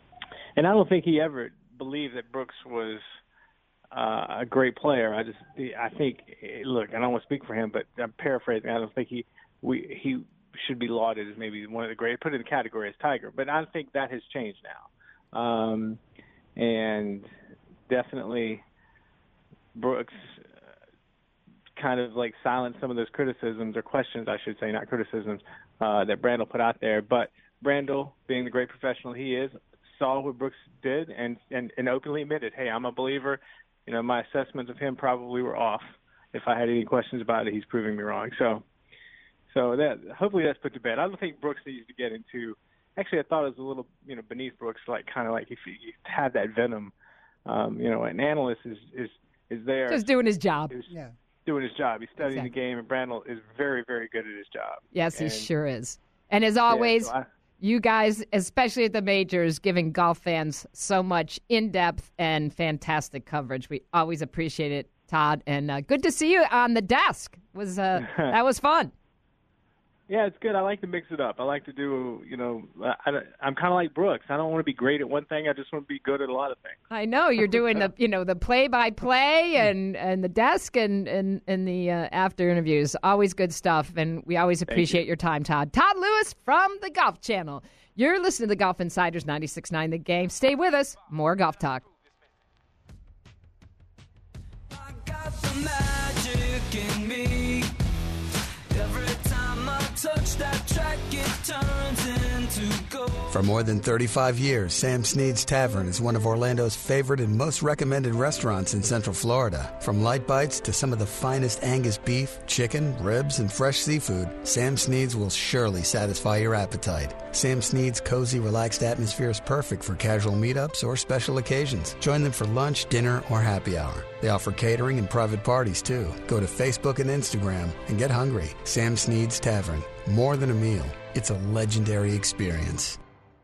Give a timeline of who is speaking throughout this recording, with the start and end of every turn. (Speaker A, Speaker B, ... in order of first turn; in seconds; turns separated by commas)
Speaker A: 0.6-3.0, Speaker A: 3.9-16.0, Speaker A: 16.6-17.3, Speaker A: 17.9-18.6, Speaker A: 19.8-20.6, Speaker A: 21.8-38.6, Speaker A: 39.5-46.9, Speaker A: 47.5-50.0, Speaker B: 49.9-50.7, Speaker A: 51.5-55.5, Speaker B: 52.2-52.5, Speaker B: 54.9-68.9, Speaker A: 56.7-57.3, Speaker A: 68.0-68.3, Speaker A: 70.1-76.8, Speaker B: 76.9-91.8, Speaker A: 77.5-77.8, Speaker A: 84.7-85.1, Speaker C: 94.7-97.8, Speaker C: 98.7-103.4, Speaker D: 103.3-133.0